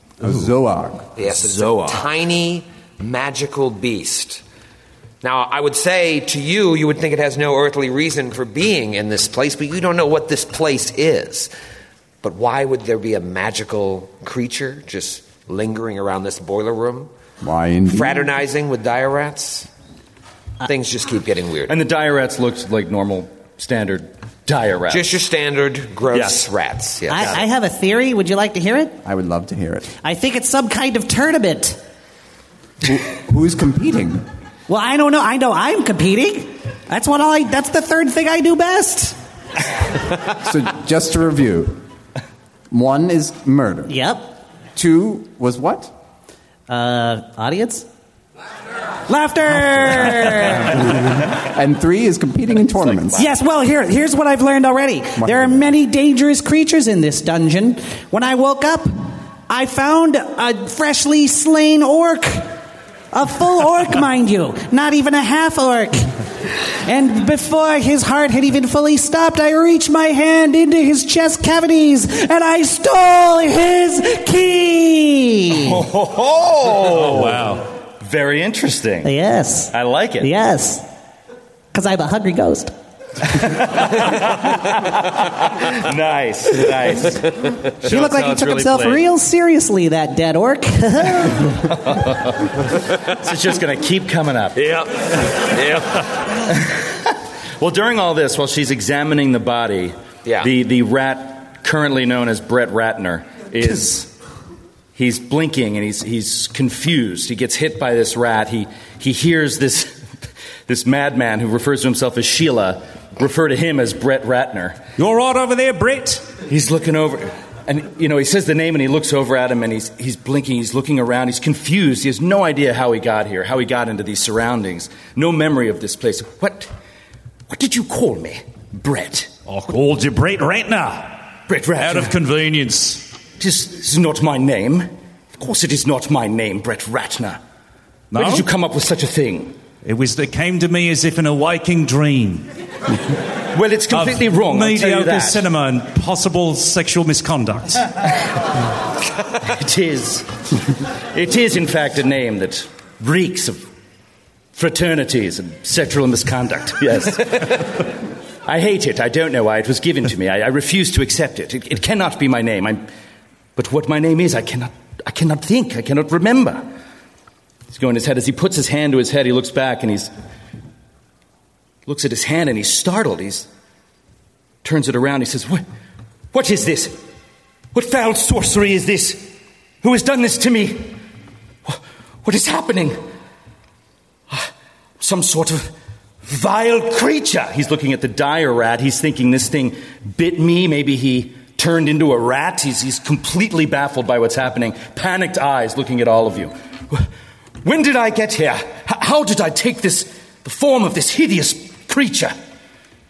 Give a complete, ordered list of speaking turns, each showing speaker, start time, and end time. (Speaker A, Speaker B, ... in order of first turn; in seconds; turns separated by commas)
Speaker A: 0.2-1.1, Speaker B: 1.1-4.4, Speaker B: 5.2-11.5, Speaker B: 12.2-17.1, Speaker A: 17.4-18.2, Speaker B: 17.9-19.7, Speaker B: 20.6-21.8, Speaker C: 21.7-25.1, Speaker B: 24.9-27.4, Speaker C: 26.1-26.5, Speaker D: 27.1-29.0, Speaker C: 27.1-27.4, Speaker A: 29.0-29.9, Speaker D: 30.0-31.8, Speaker A: 32.8-34.3, Speaker D: 34.7-39.2, Speaker A: 40.4-41.8, Speaker A: 42.7-43.9, Speaker D: 43.9-44.4, Speaker A: 44.8-45.9, Speaker D: 46.7-47.9, Speaker D: 49.1-51.0, Speaker A: 51.4-53.2, Speaker D: 53.1-62.5, Speaker A: 55.2-55.6, Speaker D: 63.1-66.1, Speaker D: 66.8-75.8, Speaker C: 75.5-79.2, Speaker E: 76.8-77.7, Speaker D: 79.0-80.9, Speaker C: 79.7-80.3, Speaker D: 81.7-82.7, Speaker C: 83.2-89.1, Speaker D: 87.8-91.6, Speaker C: 91.6-94.6, Speaker B: 94.5-96.1, Speaker C: 96.4-104.1, Speaker B: 100.2-100.5, Speaker C: 105.0-110.0, Speaker C: 110.7-114.8, Speaker E: 115.0-116.3, Speaker C: 116.5-126.7, Speaker C: 127.5-129.3, Speaker E: 129.5-133.1, Speaker C: 131.5-132.2, Speaker C: 133.4-137.4, Speaker E: 138.1-138.5, Speaker C: 138.1-139.6, Speaker E: 139.8-142.5, Speaker C: 143.5-145.4, Speaker E: 143.9-147.9, Speaker C: 149.4-150.3, Speaker C: 151.1-153.7, Speaker C: 154.6-157.9, Speaker C: 158.5-162.9, Speaker C: 163.6-166.7, Speaker C: 167.7-170.1, Speaker C: 171.9-173.5, Speaker C: 174.6-175.6, Speaker C: 176.3-177.0, Speaker C: 177.7-181.0, Speaker C: 181.7-183.0, Speaker C: 184.3-185.7, Speaker C: 186.2-197.1, Speaker C: 197.6-202.3